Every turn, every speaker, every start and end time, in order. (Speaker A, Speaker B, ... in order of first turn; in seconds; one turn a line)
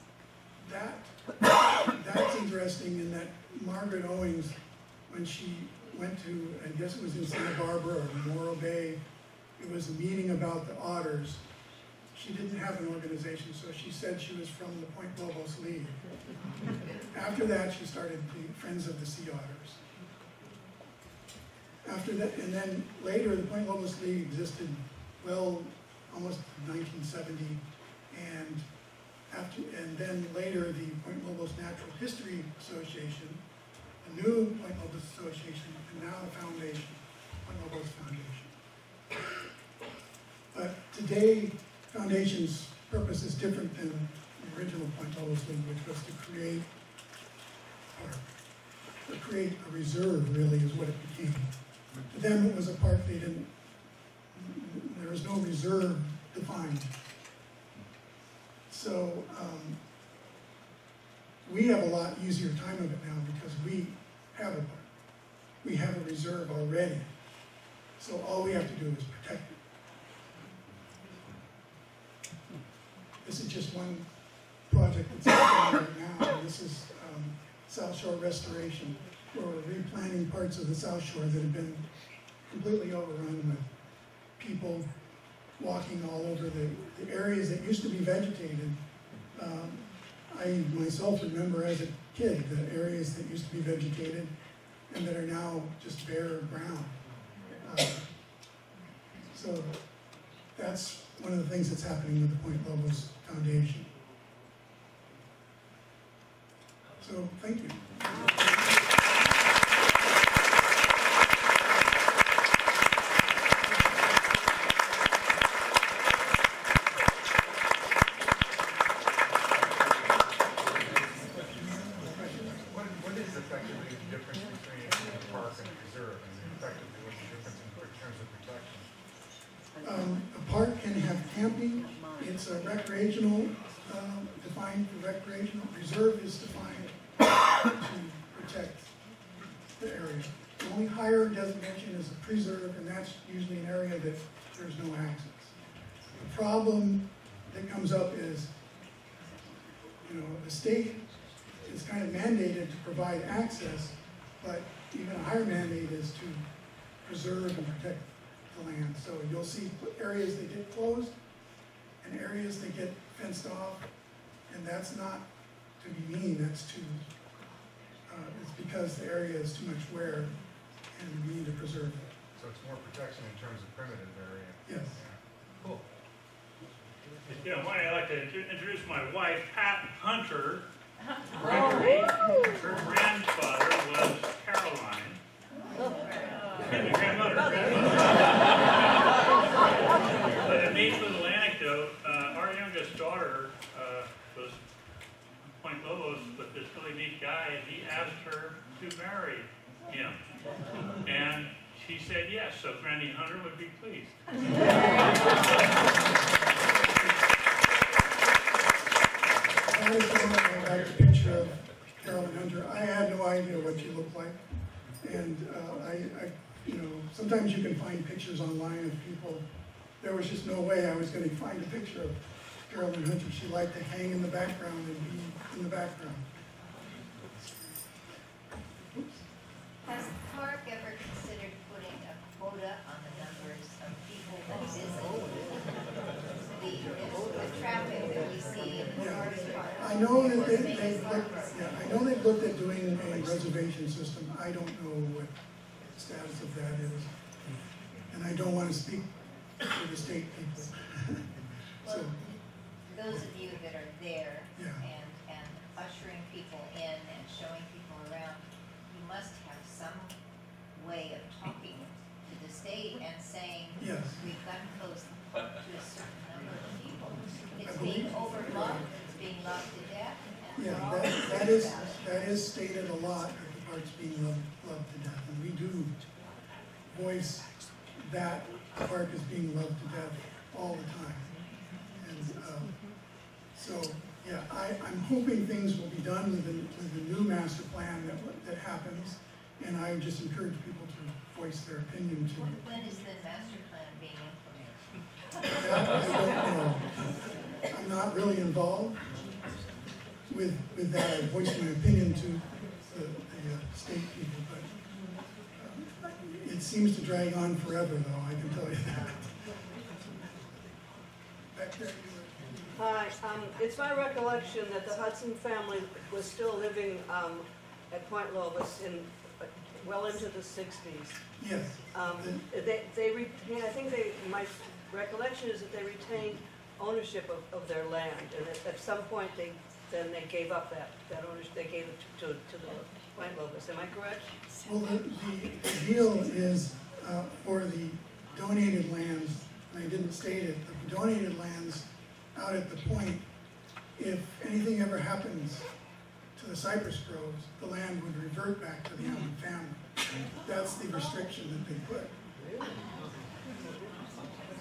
Speaker A: 0.6-1.2
Speaker A: 1.9-4.6
Speaker A: 5.1-9.0
Speaker A: 9.6-11.4
Speaker A: 12.1-16.0
Speaker A: 17.1-19.8
Speaker A: 21.8-28.6
Speaker A: 29.3-33.4
Speaker A: 34.0-38.5
Speaker A: 40.5-46.7
Speaker A: 47.9-48.3
Speaker A: 49.1-51.5
Speaker A: 52.1-53.5
Speaker A: 54.3-56.9
Speaker A: 58.7-59.8
Speaker A: 61.5-64.9
Speaker A: 65.6-67.1
Speaker A: 68.0-69.6
Speaker A: 73.2-74.1
Speaker A: 74.7-81.9
Speaker A: 82.5-83.7
Speaker A: 84.4-84.9
Speaker A: 85.6-88.8
Speaker A: 89.3-94.3
Speaker A: 94.9-97.0
Speaker A: 97.6-98.0
Speaker A: 99.3-99.8
Speaker A: 100.5-103.9
Speaker A: 107.0-107.8
Speaker A: 122.1-122.6
Speaker B: 122.7-128.9
Speaker A: 129.8-137.1
Speaker A: 137.7-138.9
Speaker A: 139.8-145.5
Speaker A: 146.2-148.5
Speaker A: 150.0-151.0
Speaker A: 151.6-156.4
Speaker A: 157.0-161.2
Speaker A: 162.0-163.9
Speaker A: 164.5-165.3
Speaker A: 165.8-167.0
Speaker A: 168.1-170.3
Speaker A: 170.9-172.1
Speaker B: 172.3-175.2
Speaker A: 174.7-175.0
Speaker C: 177.3-180.7
Speaker C: 181.4-185.2
Speaker C: 186.4-189.7
Speaker C: 190.4-194.6
Speaker C: 195.6-200.2
Speaker C: 201.0-204.2
Speaker A: 209.6-214.4
Speaker A: 215.0-219.4
Speaker A: 220.0-226.2
Speaker D: 229.9-235.9
Speaker D: 236.5-242.2
Speaker A: 238.9-245.3
Speaker A: 245.9-247.1
Speaker A: 248.1-249.1
Speaker A: 249.7-251.3
Speaker A: 251.8-252.2
Speaker D: 251.8-252.3
Speaker D: 252.9-260.1
Speaker A: 254.6-254.8
Speaker D: 260.7-272.0
Speaker A: 263.8-264.2
Speaker A: 267.6-268.9
Speaker A: 270.6-275.9
Speaker A: 276.9-281.3
Speaker A: 282.0-282.8
Speaker A: 283.5-292.6
Speaker D: 292.3-294.8
Speaker A: 295.5-299.0
Speaker A: 300.3-304.7
Speaker A: 305.6-309.3
Speaker A: 311.5-312.5
Speaker E: 312.8-321.2
Speaker A: 321.4-322.4
Speaker E: 321.9-334.3
Speaker A: 334.7-343.2
Speaker A: 344.0-345.7
Speaker A: 346.4-352.1